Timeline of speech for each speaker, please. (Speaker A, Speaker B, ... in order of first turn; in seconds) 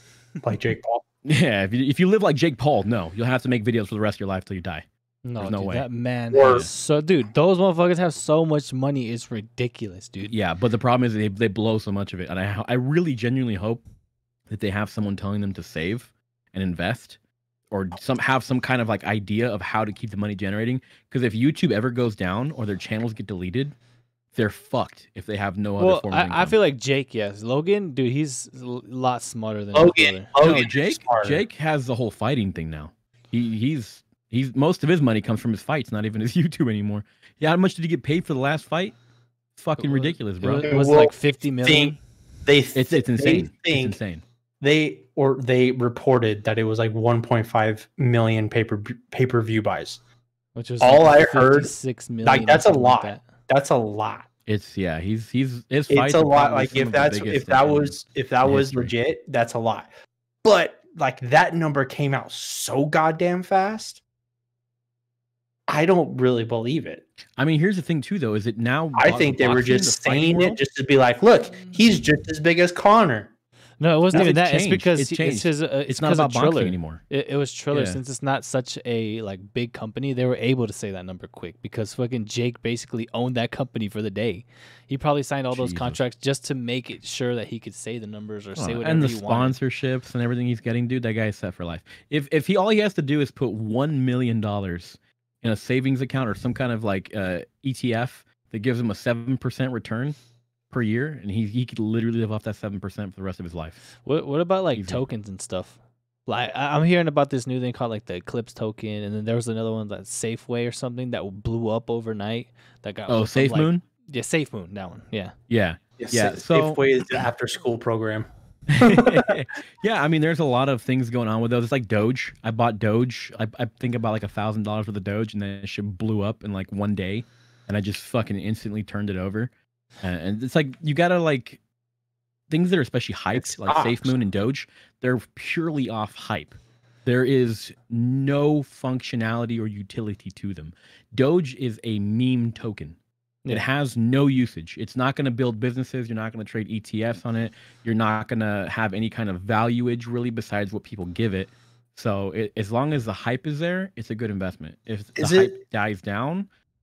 Speaker A: 0.4-1.0, 6.3-6.7, 29.7-31.4, 40.6-41.1, 41.6-41.9, 42.5-44.0, 44.6-50.0, 50.8-54.3, 55.9-59.9, 60.4-64.0, 65.7-67.0, 68.9-73.3, 116.0-119.3, 133.3-134.2, 155.2-155.5
Speaker B: 1.2-4.8, 5.4-5.8, 6.4-6.7, 10.3-13.8, 14.5-17.2, 17.7-23.7, 24.3-26.6, 30.4-39.0, 39.5-40.7, 42.7-44.2, 54.5-58.9, 67.4-70.6, 74.1-77.0, 77.7-78.0, 85.5-86.0, 88.6-100.2, 100.7-103.8, 104.7-105.0, 113.1-113.8, 115.5-116.8, 118.7-129.5, 130.0-131.6, 132.5-143.0, 143.5-156.5
Speaker C: 5.2-10.3, 25.8-30.3, 39.8-42.0, 50.5-53.3, 73.8-89.5, 104.0-115.3